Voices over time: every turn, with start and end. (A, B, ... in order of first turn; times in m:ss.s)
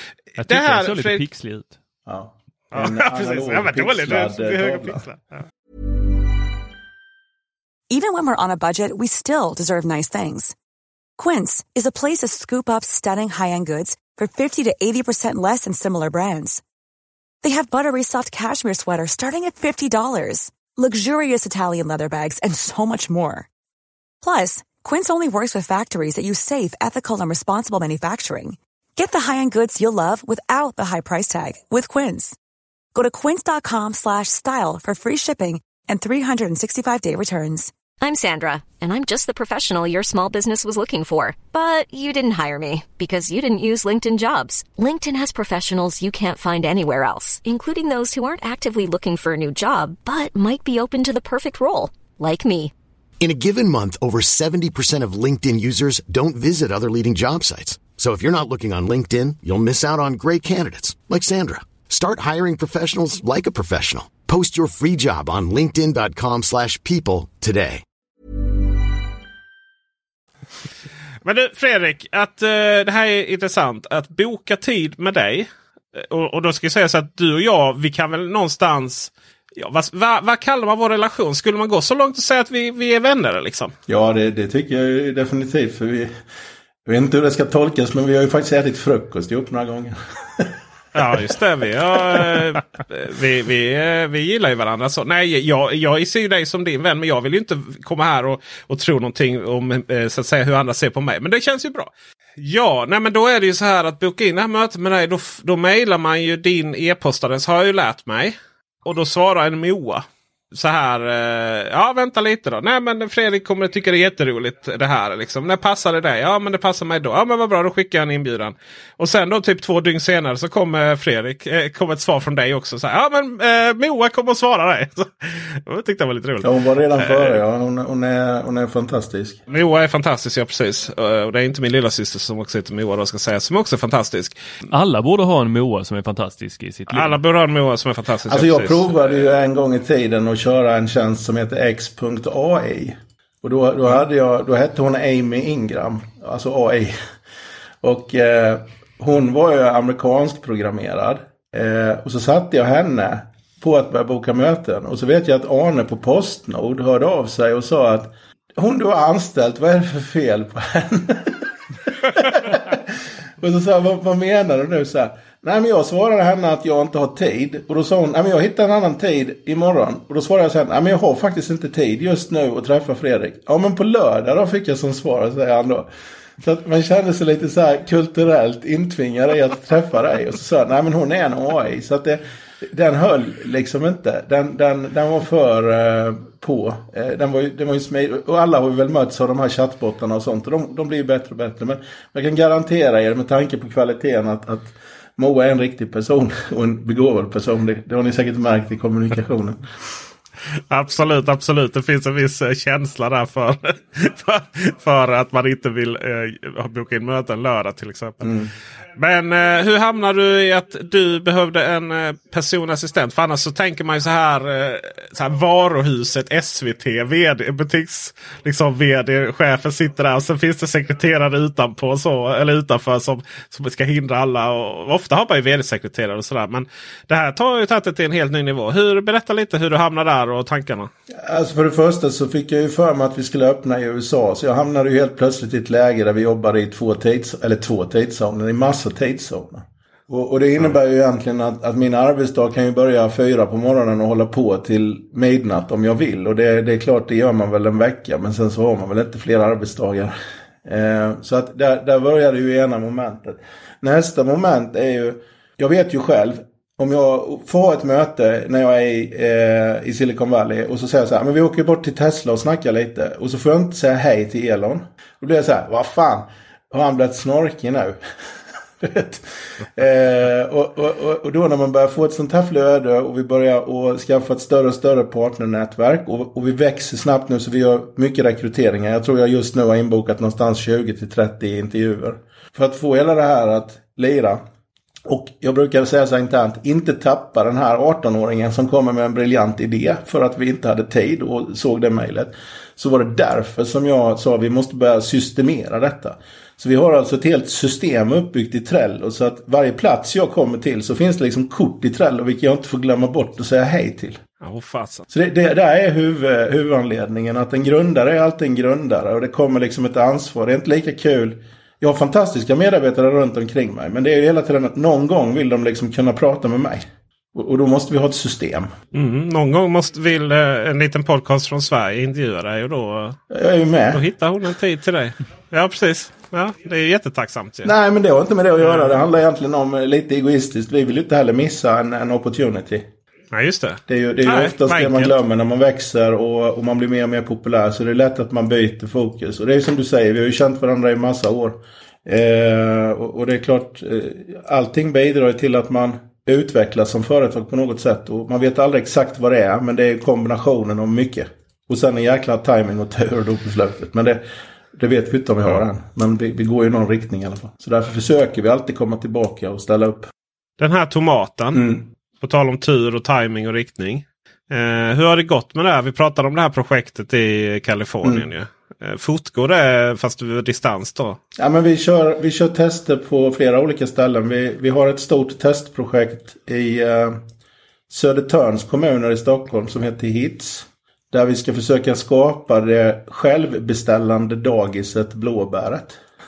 0:00.4-0:01.2 A
0:00.4-0:01.8 B
0:02.0-0:05.0 C
0:02.7-0:05.4 A
0:07.9-0:10.5 D
0:11.2-0:16.6 D
0:17.4-0:23.5 D
0:24.2-0:32.4 D
0:32.9-0:37.7 D
0:38.0-0:52.7 E
0:53.2-1:07.8 F
1:11.2-1:23.7 A
1:23.9-1:26.1 C
1:26.8-1:30.5 C
1:30.9-2:07.4 A
2:06.4-2:09.4 C
2:09.5-2:14.4 A
2:14.7-2:17.2 B
2:16.9-2:18.9 A
2:18.3-2:26.9 C
2:27.8-2:55.9 C
2:56.4-3:19.6 C
3:20.7-3:28.3 A
3:28.2-3:28.5 C
3:29.0-3:50.9 A
3:51.1-4:10.1 C
4:10.6-4:28.0 C
4:28.8-4:44.4 C
4:45.0-5:04.2 C
5:04.4-5:05.0 A
5:05.1-5:18.7 C
5:18.9-5:23.2 A
5:23.3-5:24.0 C
5:23.9-5:27.7 A
5:27.6-5:32.9 C
5:28.6-5:29.0 A
5:33.3-5:35.2 A
5:33.9-5:54.2 C
5:54.7-6:00.1 C
6:00.6-6:01.7 A
6:01.5-6:01.8 C
6:02.2-6:11.2 A
6:11.4-6:17.2 C
6:17.9-6:26.0 C